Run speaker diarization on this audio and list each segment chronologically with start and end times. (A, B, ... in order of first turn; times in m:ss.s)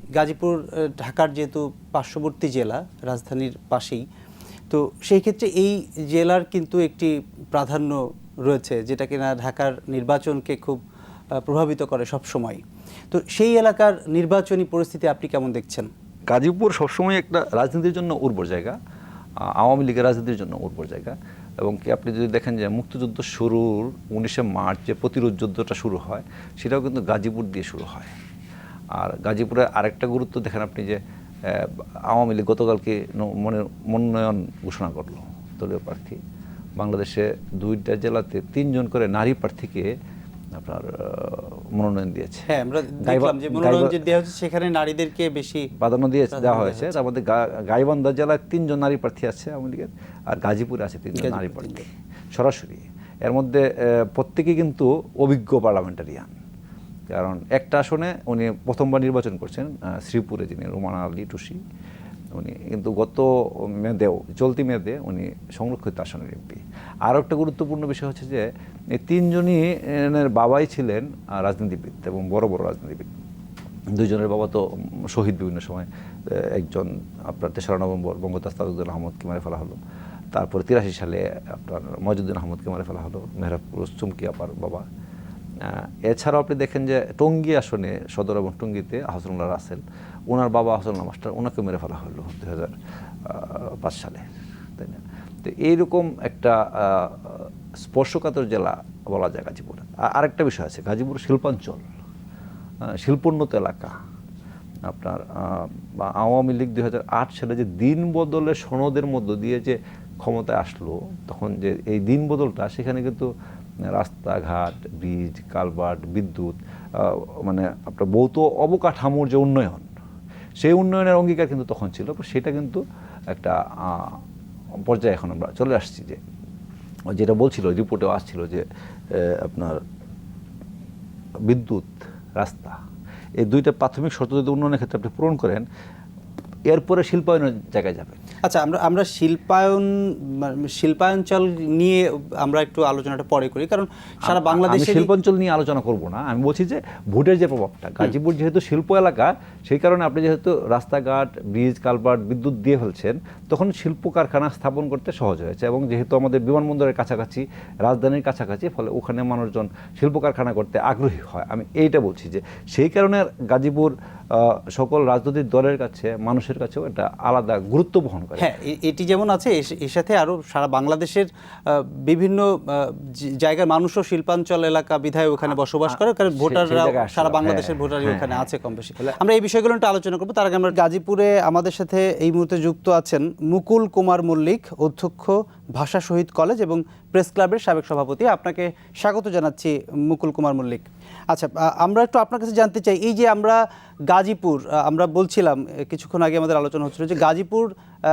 0:00.2-0:04.0 A
0:04.7-0:10.8 A
0:11.4-0:15.9 A
0:16.3-0:18.8 B
0:19.4-0:28.1 B
0:29.0-0:36.2 B
0:36.8-0:39.9 B
0:40.6-0:42.5 B
0:42.5-0:45.7 A
0:43.0-0:43.9 B
0:45.8-0:56.3 B
0:46.3-0:46.9 A
0:51.2-0:51.8 A
0:57.1-1:01.6 B
1:02.3-1:13.1 B
1:14.0-1:19.8 B
1:20.3-1:24.9 B
1:25.6-1:34.3 B
1:34.8-1:41.9 B
1:42.9-1:44.0 B
1:44.9-1:53.3 B
1:53.9-1:59.9 B
2:00.6-2:04.2 B
2:04.8-2:06.2 B
2:07.1-2:09.8 B
2:11.5-2:12.8 B
2:13.4-2:15.7 B
2:16.7-2:18.2 B
2:18.4-2:25.1 A
2:24.2-2:48.5 B
2:48.4-3:17.7 A
2:55.9-2:59.2 B